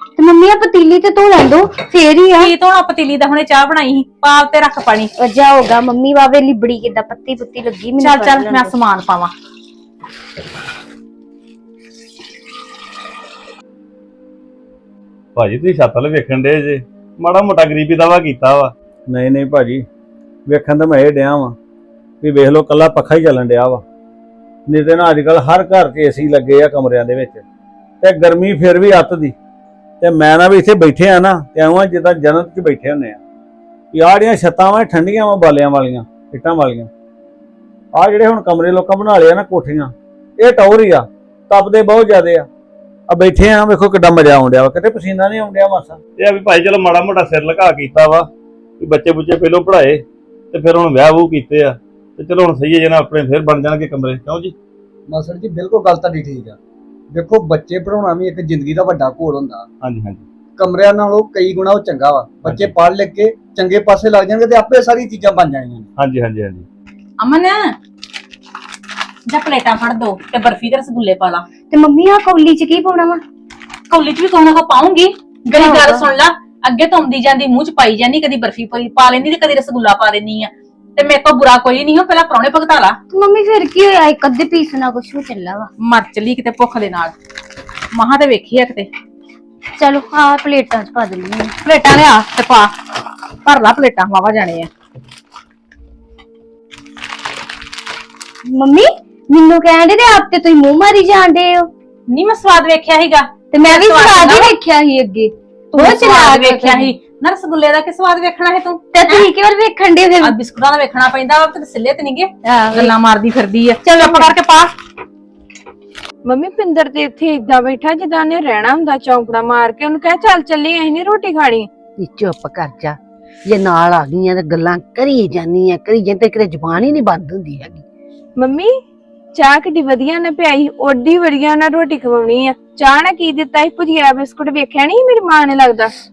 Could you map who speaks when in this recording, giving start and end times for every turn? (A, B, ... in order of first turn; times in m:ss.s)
0:00.2-0:02.5 A
0:02.4-0:05.1 B
0:05.2-0:08.8 A
0:08.0-0:09.3 B
0:15.4-0:18.7 C
0:19.1-0:19.8 D
0:20.5-0:21.5 D
0:22.2-0:23.8 D
0:24.7-0:27.4 D
0:28.0-0:29.3 D
0:30.0-0:33.2 D
0:33.9-0:36.9 D
0:38.0-0:42.5 D
0:43.1-0:46.0 D
0:46.2-0:48.3 C
0:48.8-0:54.5 C
0:55.1-0:56.6 E
0:57.1-0:59.6 E
0:59.8-1:00.2 C
1:00.6-1:05.8 E
1:06.0-1:06.6 C
1:07.2-1:07.7 B
1:09.3-1:11.4 B
1:11.7-1:13.2 A
1:13.9-1:23.0 B
1:15.5-1:16.1 A
1:23.1-1:25.7 A
1:25.8-1:27.1 B
1:27.9-1:28.9 B
1:29.8-1:31.5 A
1:31.6-1:32.7 B
1:33.4-1:34.7 B
1:38.4-1:41.7 A
1:42.1-1:44.5 B
1:43.5-1:46.9 A
1:45.7-1:49.3 B
1:48.9-1:50.4 A
1:50.2-1:54.7 B
1:52.4-1:52.9 A
1:53.8-1:54.3 A
1:56.2-2:01.7 F
2:02.0-2:03.0 G
2:03.5-2:07.8 G
2:08.4-2:08.8 F
2:09.3-2:15.9 F